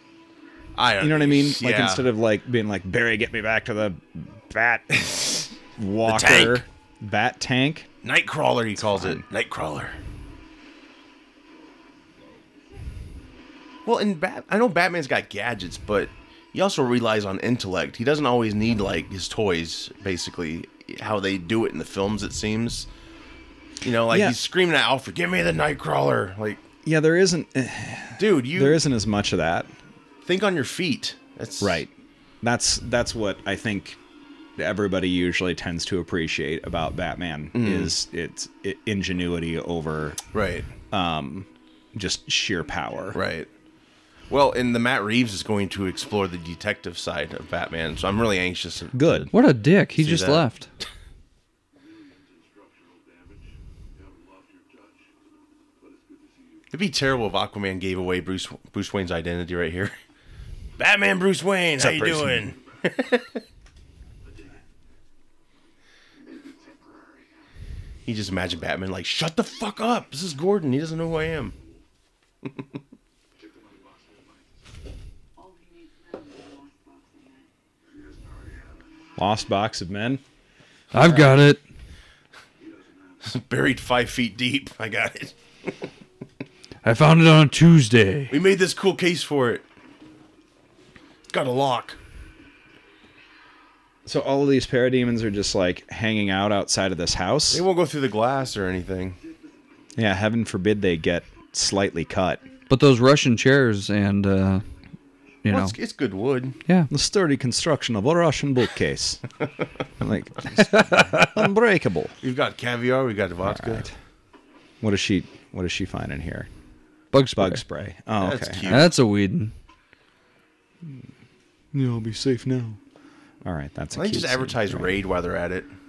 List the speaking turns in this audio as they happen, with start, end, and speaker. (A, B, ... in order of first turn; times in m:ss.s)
0:00.8-0:02.0 A
0:01.0-0:05.1 B
0:04.9-0:05.5 A
0:05.8-0:07.9 B
0:06.0-0:06.6 A
0:08.0-0:10.0 A
0:08.8-0:09.2 B
0:13.8-0:22.9 A
0:23.8-0:26.6 A
0:24.1-0:24.4 B
0:26.8-0:29.7 B
0:28.2-0:28.8 A
0:30.2-0:31.8 A
0:31.6-0:31.9 B
0:32.4-0:34.0 B
0:34.6-0:40.2 B
0:37.5-0:37.9 A
0:40.3-0:40.7 A
0:40.9-0:43.2 B
0:43.1-0:43.5 A
0:44.3-0:49.3 A
0:48.9-0:49.3 B
0:49.3-0:50.7 C
0:50.0-0:50.4 A
0:51.8-0:56.7 D
0:56.7-1:00.0 A
1:00.8-1:03.4 A
1:01.8-1:02.5 B
1:06.3-1:07.3 D
1:08.0-1:11.5 A
1:13.4-1:14.5 D
1:15.4-1:17.4 E
1:19.2-1:20.2 B
1:20.9-1:21.6 C
1:21.0-1:21.3 A
1:22.6-1:23.2 D
1:23.2-1:25.8 A
1:26.8-1:28.4 C
1:28.3-1:29.6 A
1:31.3-1:32.0 A
1:34.0-1:37.6 B
1:37.5-1:39.2 A
1:40.0-1:42.4 B
1:42.7-1:44.6 C
1:45.4-1:45.8 C
1:45.5-1:46.6 A
1:46.9-1:49.2 B
1:50.0-1:52.2 B
1:50.5-1:51.4 C
1:52.2-1:53.9 A
1:53.4-1:53.9 B
1:54.8-1:56.5 B
1:57.1-1:57.6 C
1:57.4-1:58.8 B
1:58.2-1:58.9 A
1:58.7-1:59.5 C
2:01.7-2:02.8 B
2:03.4-2:05.0 B
2:03.9-2:05.7 A